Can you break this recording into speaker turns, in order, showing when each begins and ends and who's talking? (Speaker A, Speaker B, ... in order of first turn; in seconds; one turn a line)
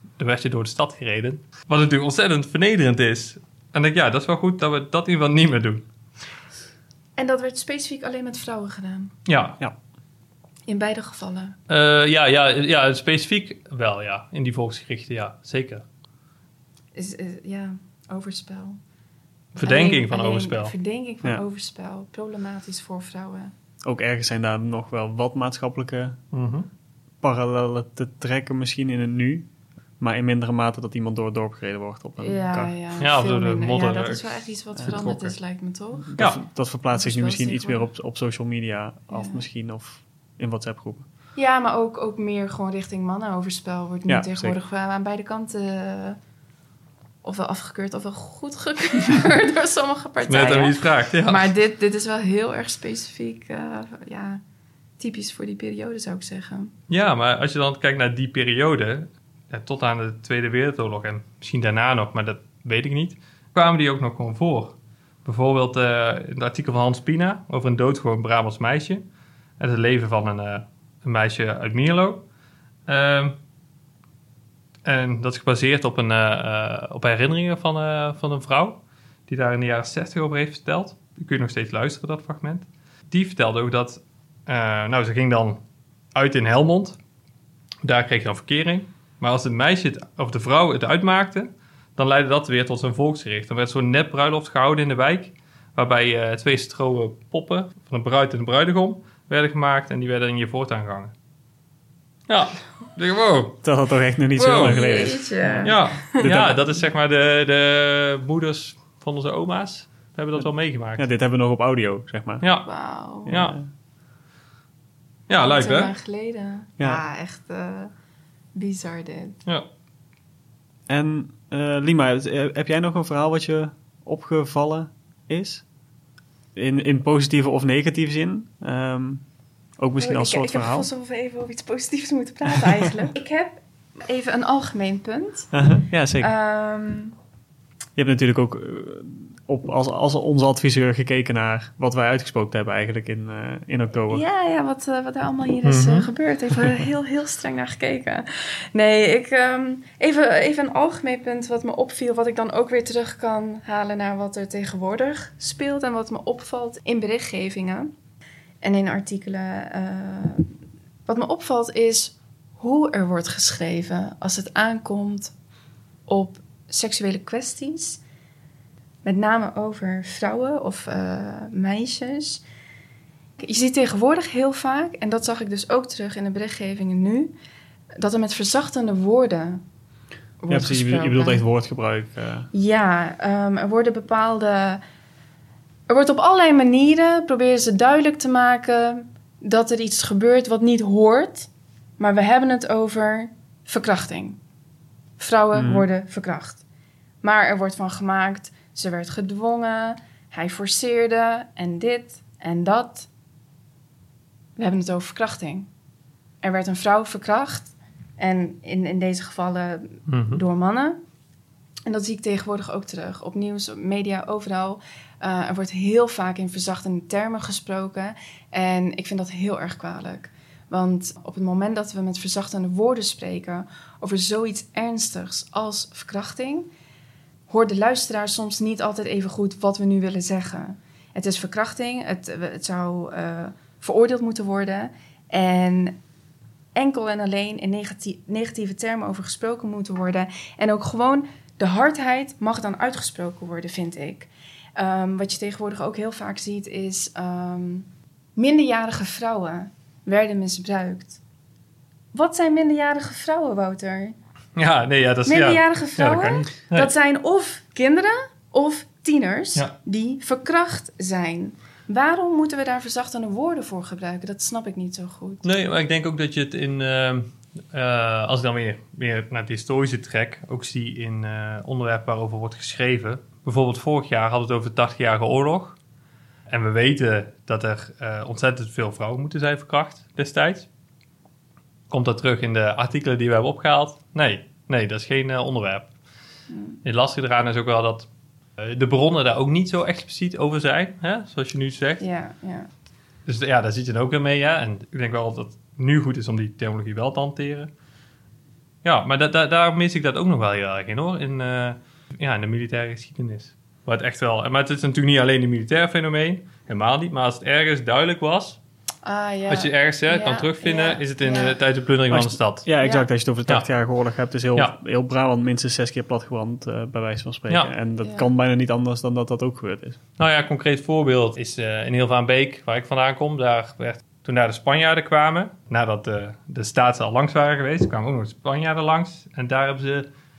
Speaker A: 0.2-5.8
Speaker B: 7.2-9.1
Speaker A: 9.2-9.6
Speaker B: 10.7-11.6
Speaker A: 11.7-15.8
Speaker B: 16.9-18.8
Speaker A: 19.5-20.7
Speaker B: 19.6-23.5
Speaker C: 23.8-26.2
Speaker A: 26.3-26.7
Speaker C: 27.2-29.5
Speaker C: 30.0-32.7
Speaker B: 32.2-36.3
Speaker A: 33.0-34.3
Speaker A: 34.8-35.4
Speaker C: 36.0-41.0
Speaker B: 36.9-37.9
Speaker B: 39.1-39.4
Speaker B: 41.4-46.2
Speaker C: 44.1-44.6
Speaker B: 47.2-54.4
Speaker A: 50.3-51.5
Speaker B: 55.0-56.7
Speaker A: 56.9-69.0
Speaker A: 69.6-72.2
Speaker A: 72.9-73.3
Speaker A: 74.8-85.6
Speaker A: 86.1-87.0
Speaker A: 87.8-101.1
Speaker A: 102.3-103.6
Speaker C: 103.6-106.8
Speaker B: 104.4-106.2
Speaker A: 104.4-105.1
Speaker A: 105.6-111.0
Speaker C: 111.0-112.4
Speaker A: 112.4-113.6
Speaker B: 112.6-113.3
Speaker C: 113.2-113.6
Speaker A: 115.3-115.9
Speaker B: 115.4-117.9
Speaker B: 118.5-119.4
Speaker C: 120.9-125.6
Speaker C: 126.5-129.2
Speaker C: 129.8-130.9
Speaker B: 130.0-135.5
Speaker C: 135.5-136.3
Speaker B: 136.2-137.1
Speaker C: 137.9-144.2
Speaker B: 144.1-157.9
Speaker A: 145.6-146.1
Speaker B: 158.6-160.5
Speaker B: 161.1-165.3
Speaker B: 166.1-168.0
Speaker B: 169.0-172.4
Speaker B: 173.4-177.3
Speaker B: 178.0-179.6
Speaker B: 180.4-181.4
Speaker C: 180.5-182.5
Speaker B: 182.5-184.8
Speaker B: 185.9-194.4
Speaker B: 195.2-196.6
Speaker C: 195.5-195.8
Speaker B: 197.2-203.1
Speaker B: 204.6-205.7
Speaker B: 206.4-211.0
Speaker A: 210.1-210.4
Speaker B: 211.8-226.7
Speaker B: 227.5-236.0
Speaker B: 236.8-251.2
Speaker B: 252.1-254.1
Speaker A: 254.6-256.9
Speaker B: 255.2-265.4
Speaker A: 265.4-275.8
Speaker A: 276.5-280.7
Speaker A: 281.9-285.9
Speaker B: 286.5-286.8
Speaker A: 286.8-292.0
Speaker B: 292.0-292.7
Speaker A: 293.2-297.7
Speaker A: 298.8-308.6
Speaker B: 309.0-311.6
Speaker A: 309.5-312.7
Speaker C: 312.1-320.0
Speaker B: 312.8-313.1
Speaker B: 318.0-318.3
Speaker A: 320.2-330.1